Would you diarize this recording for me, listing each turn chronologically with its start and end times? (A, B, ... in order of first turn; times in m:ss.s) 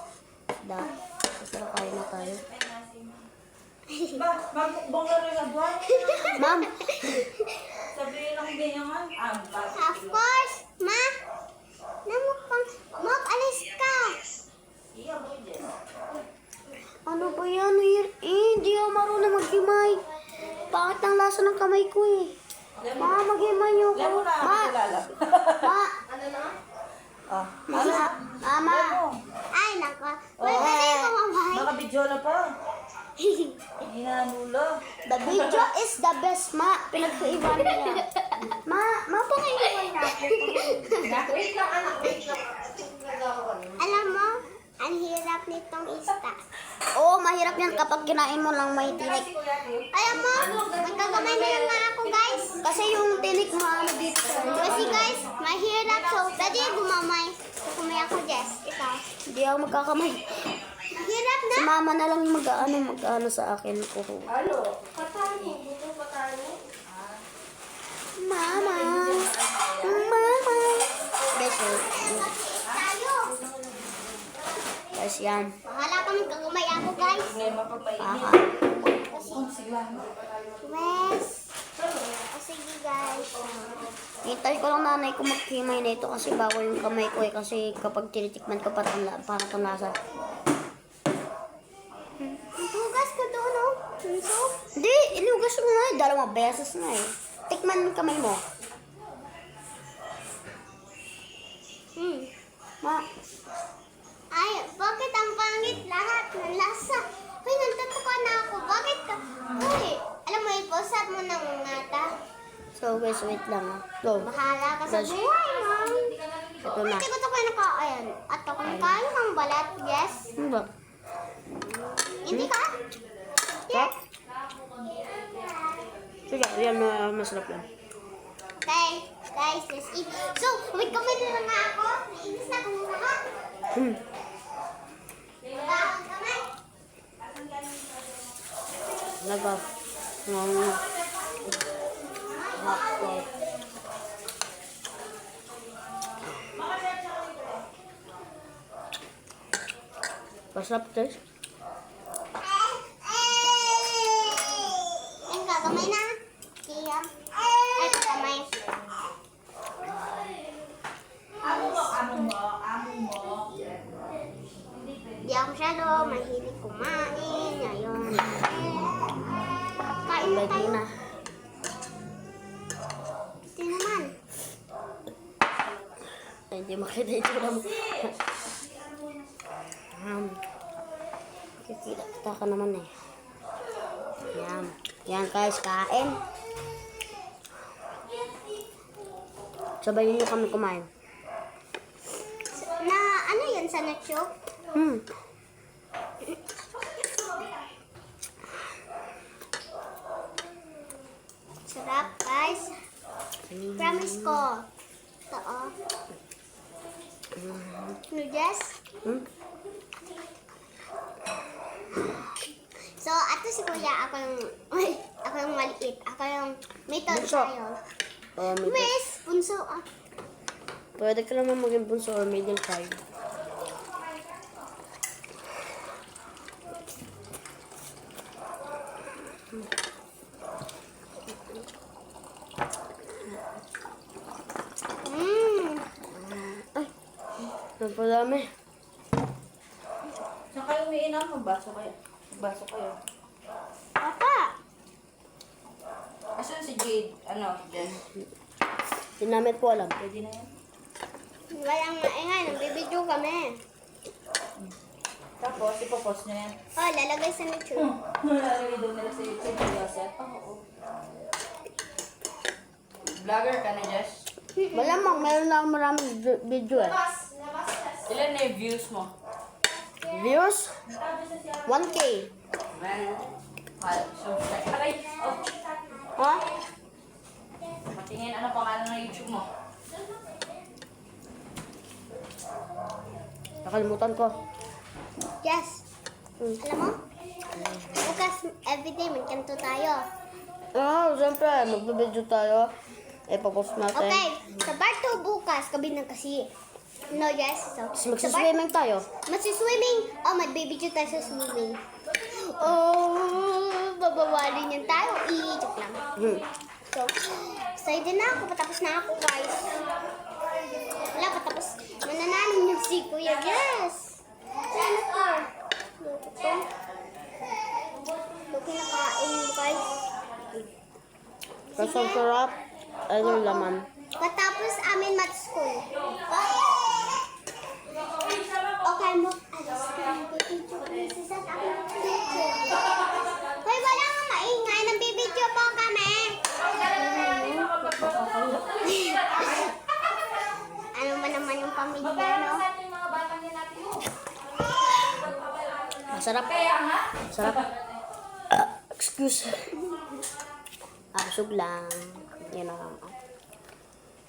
0:00.6-0:02.4 A
0:02.4-0:03.2 B
0:03.9-0:04.2 C
0:04.2-0:06.4 B
0:05.9-0:07.7 C
0:06.3-0:07.2 A
0:07.9-0:10.2 B
0:09.7-0:11.1 C
0:12.1-0:14.2 C
0:14.9-0:15.7 B
0:17.0-0:20.0 A
0:20.7-0:22.4 A
0:22.8-0:23.2 B
0:23.0-0:24.8 A
0:23.9-0:25.7 B
0:25.5-0:26.0 A
0:27.3-0:29.2 B
0:27.7-0:29.0 A
0:29.5-0:31.7 C
0:30.4-0:30.7 B
0:30.4-0:31.1 A
0:31.5-0:32.6 B
0:33.2-0:33.6 C
0:33.8-0:35.7 B
0:35.0-0:41.0 A
0:40.0-0:41.3 C
0:41.0-0:43.8 B
0:43.8-0:46.4 C
0:46.9-0:49.3 A
0:48.8-0:51.8 B
0:49.9-0:52.7 C
0:52.6-0:55.2 A
0:54.4-0:55.3 B
0:54.5-0:59.1 C
0:55.9-0:56.5 B
0:59.2-1:00.5 A
1:00.9-1:01.7 C
1:01.6-1:04.4 A
1:04.3-1:07.2 B
1:08.2-1:12.3 A
1:08.5-1:10.1 B
1:11.5-1:13.4 C
1:14.9-1:15.6 A
1:15.6-1:17.4 C
1:17.0-1:18.5 B
1:18.0-1:18.5 A
1:18.9-1:19.5 C
1:19.2-1:20.1 B
1:20.6-1:23.9 C
1:24.2-1:30.0 A
1:32.5-1:34.6 C
1:34.8-1:38.4 A
1:42.0-1:42.3 C
1:44.3-1:52.1 C
1:52.8-1:54.3 A
1:54.2-1:56.2 C
1:54.9-1:55.3 A
1:56.6-1:57.1 A
1:56.7-2:00.4 C
2:00.4-2:00.7 A
2:02.1-2:02.8 C
2:02.2-2:02.5 A
2:03.7-2:04.0 C
2:04.7-2:06.0 C
2:06.3-2:07.7 A
2:08.6-2:13.3 C
2:13.7-2:14.0 A
2:15.5-2:16.5 C
2:19.2-2:19.7 A
2:20.2-2:20.8 A
2:22.2-2:23.4 C
2:22.5-2:23.3 A
2:26.5-2:27.6 B
2:30.5-2:31.2 A
2:32.6-2:38.5 C
2:41.4-2:43.6 B
2:41.4-2:42.3 C
2:44.9-2:45.2 B
2:45.2-2:48.9 C
2:50.1-2:50.8 C
2:50.2-2:50.9 A
2:53.5-2:54.2 C
2:56.5-2:58.2 A
2:59.9-3:00.4 A
3:01.6-3:02.9 A
3:04.3-3:06.2 A
3:09.8-3:10.9 A
3:12.5-3:14.3 C
3:14.7-3:15.1 A
3:21.7-3:22.7 C
3:23.5-3:24.4 A
3:23.8-3:24.7 C
3:25.3-3:25.7 C
3:27.4-3:28.0 A
3:28.1-3:28.8 C
3:33.0-3:37.8 C
3:37.1-3:37.5 A
3:38.4-3:38.9 A
3:38.5-3:39.8 C
3:41.0-3:43.0 A
3:55.0-3:55.9 C
3:56.1-3:56.9 A
3:57.8-3:58.5 A
4:00.5-4:03.0 B
4:04.0-4:04.6 C
4:06.4-4:08.0 B
4:09.2-4:10.0 A
4:10.0-4:10.5 B
4:11.5-4:13.6 C
4:15.4-4:16.6 B
4:16.7-4:18.0 C
4:17.9-4:20.6 B
4:23.0-4:24.3 B
4:24.6-4:25.2 C
4:24.7-4:27.0 A
4:27.6-4:29.1 B
4:30.0-4:30.8 A
4:31.1-4:31.6 B
4:31.6-4:32.3 A
4:32.7-4:35.6 B
4:36.2-4:36.4 A
4:37.9-4:39.5 B
4:43.6-4:44.4 A
4:45.4-4:45.8 C
4:46.6-4:47.0 C
4:47.6-4:48.1 A
4:47.9-4:50.1 C
4:50.7-4:52.7 A
4:53.3-4:54.3 A
4:53.9-4:56.5 C
4:57.1-4:58.5 C
4:58.0-4:59.1 A
4:59.3-5:06.1 C
5:06.2-5:06.4 A
5:06.9-5:09.9 C
5:11.0-5:16.7 C
5:18.5-5:20.0 C
5:21.7-5:22.3 C
5:21.8-5:23.9 A
5:23.2-5:27.2 C
5:28.1-5:36.4 C
5:37.0-5:37.8 A
5:37.0-5:38.8 B
5:38.7-5:39.7 C
5:40.9-5:42.7 C
5:42.8-5:44.1 B
5:46.1-5:46.6 A
5:46.5-5:47.6 B
5:47.3-5:47.7 A
5:48.5-5:50.0 A
5:51.1-5:53.2 A